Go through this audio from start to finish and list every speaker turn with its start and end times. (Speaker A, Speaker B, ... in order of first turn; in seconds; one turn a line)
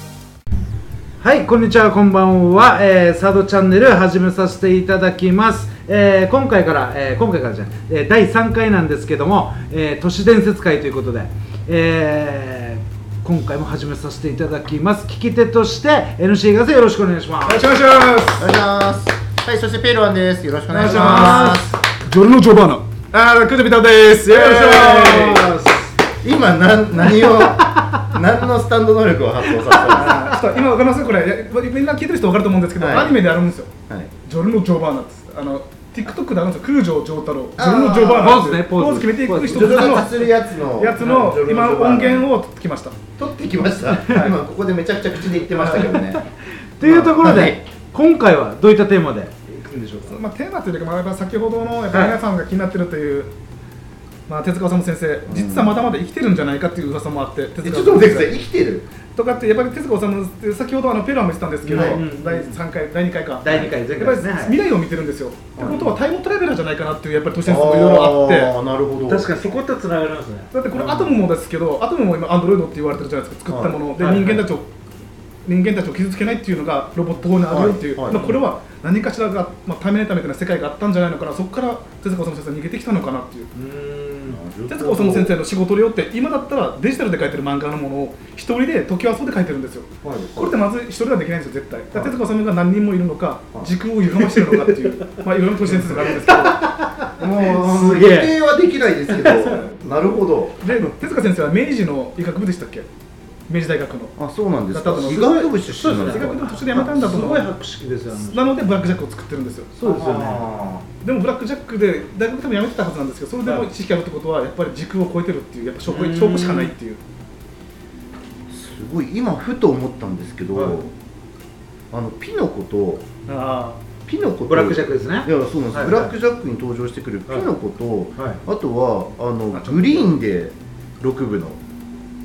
Speaker A: 1.2-17.7
Speaker B: 17.4-18.6
Speaker C: 18.3-21.8
Speaker B: 20.7-25.5
Speaker A: 20.8-21.5
Speaker C: 24.2-30.4
Speaker B: 29.9-33.7
Speaker C: 32.8-33.2
Speaker B: 34.2-43.0
Speaker C: 37.6-38.4
Speaker A: 38.2-40.2
Speaker C: 39.5-42.3
Speaker C: 43.2-46.2
Speaker B: 44.1-44.4
Speaker B: 45.5-46.0
Speaker A: 45.9-46.2
Speaker A: 46.8-50.1
Speaker C: 46.8-47.6
Speaker B: 50.1-53.3
Speaker A: 51.9-52.2
Speaker B: 54.3-58.4
Speaker C: 55.2-55.8
Speaker C: 57.6-58.9
Speaker B: 59.1-68.5
Speaker A: 61.6-62.6
Speaker C: 61.7-62.0
Speaker A: 63.4-64.6
Speaker C: 65.6-65.9
Speaker C: 67.4-69.5
Speaker A: 69.0-70.5
Speaker B: 70.5-74.7
Speaker C: 70.8-71.1
Speaker C: 73.5-73.8
Speaker A: 74.0-74.4
Speaker B: 75.4-83.5
Speaker C: 77.5-78.2
Speaker A: 78.1-78.4
Speaker A: 83.5-84.4
Speaker C: 84.3-85.4
Speaker B: 84.7-96.7
Speaker C: 90.0-90.6
Speaker C: 91.9-92.2
Speaker A: 95.9-98.3
Speaker C: 97.2-100.6
Speaker A: 99.1-99.6
Speaker B: 100.6-102.9
Speaker B: 103.5-107.5
Speaker C: 104.2-106.3
Speaker A: 105.1-108.5
Speaker B: 108.1-109.7
Speaker A: 109.7-110.4
Speaker C: 109.8-110.8
Speaker B: 111.0-117.0
Speaker A: 115.8-116.7
Speaker C: 118.5-120.9
Speaker A: 120.5-120.8
Speaker C: 121.9-123.0
Speaker B: 123.3-123.8
Speaker C: 124.0-131.6
Speaker A: 124.4-126.1
Speaker B: 129.5-130.2